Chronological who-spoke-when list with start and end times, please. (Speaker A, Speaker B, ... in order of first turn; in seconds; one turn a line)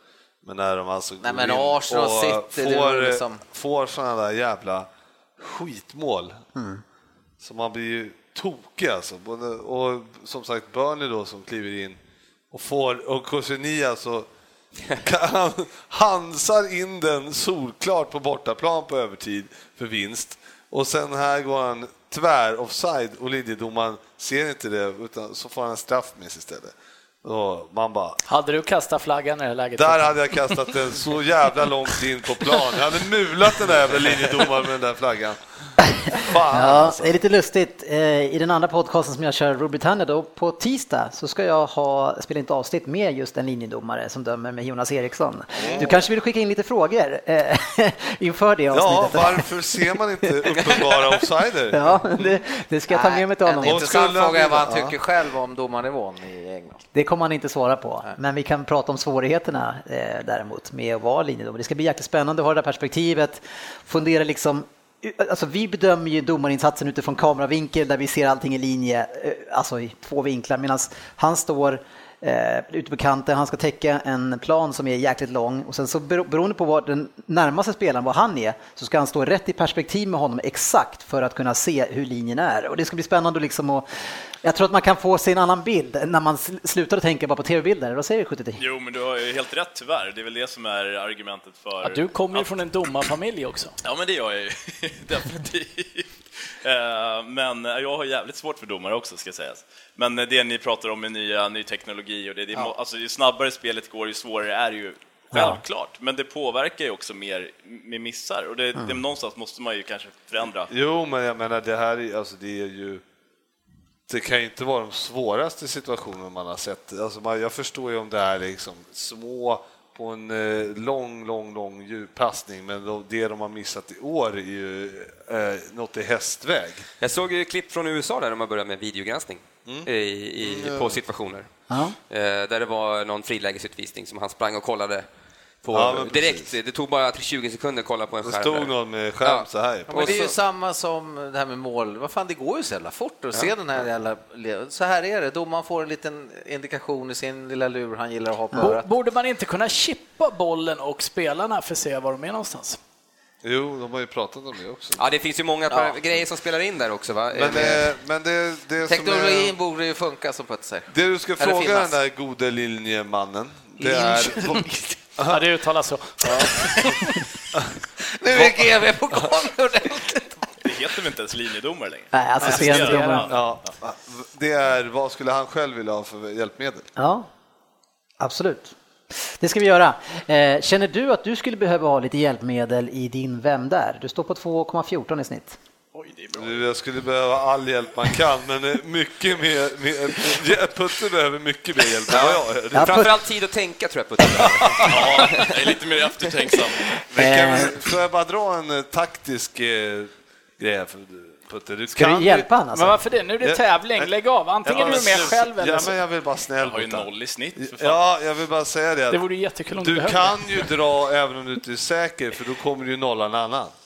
Speaker A: 0.4-6.4
Speaker B: 1.2-3.4
Speaker C: 6.5-6.8
Speaker A: 7.4-12.0
Speaker A: 12.5-14.3
Speaker A: 15.0-28.2
Speaker D: 28.2-30.7
Speaker A: 29.8-35.4
Speaker A: 36.1-37.2
Speaker C: 36.5-49.5
Speaker A: 45.6-46.0
Speaker A: 48.7-52.3
Speaker C: 51.7-53.8
Speaker B: 52.9-56.8
Speaker A: 53.6-55.0
Speaker C: 56.9-83.8
Speaker C: 84.4-88.6
Speaker E: 88.6-92.9
Speaker D: 91.8-93.7
Speaker E: 93.8-110.7
Speaker C: 105.3-105.6
Speaker A: 110.7-113.0
Speaker A: 114.1-126.8
Speaker F: 127.0-131.5
Speaker A: 129.6-131.0
Speaker C: 131.7-131.9
Speaker F: 132.1-135.1
Speaker F: 135.6-138.7
Speaker A: 135.7-136.5
Speaker A: 138.2-140.3
Speaker F: 139.2-140.3
Speaker B: 139.9-148.9
Speaker D: 148.6-152.8
Speaker A: 153.4-155.0
Speaker F: 155.0-157.8
Speaker B: 155.7-155.9
Speaker A: 157.3-159.5
Speaker B: 158.8-161.9
Speaker A: 160.9-165.4
Speaker D: 165.2-167.2
Speaker A: 166.2-166.8
Speaker B: 168.1-170.3
Speaker A: 168.3-168.7
Speaker E: 170.6-173.5
Speaker C: 172.1-173.3
Speaker D: 172.5-173.3
Speaker A: 173.3-176.9
Speaker C: 177.0-177.3
Speaker C: 178.2-178.7
Speaker C: 179.4-185.6
Speaker E: 185.9-186.6
Speaker A: 186.3-193.1
Speaker F: 192.1-195.7
Speaker C: 192.7-193.1
Speaker A: 194.3-195.0
Speaker E: 194.8-197.0
Speaker A: 197.1-202.5
Speaker C: 197.2-197.7
Speaker C: 201.9-203.0
Speaker D: 202.7-206.0
Speaker A: 203.4-204.1
Speaker A: 204.6-213.7
Speaker E: 204.7-205.4
Speaker E: 206.6-208.0
Speaker D: 209.1-210.7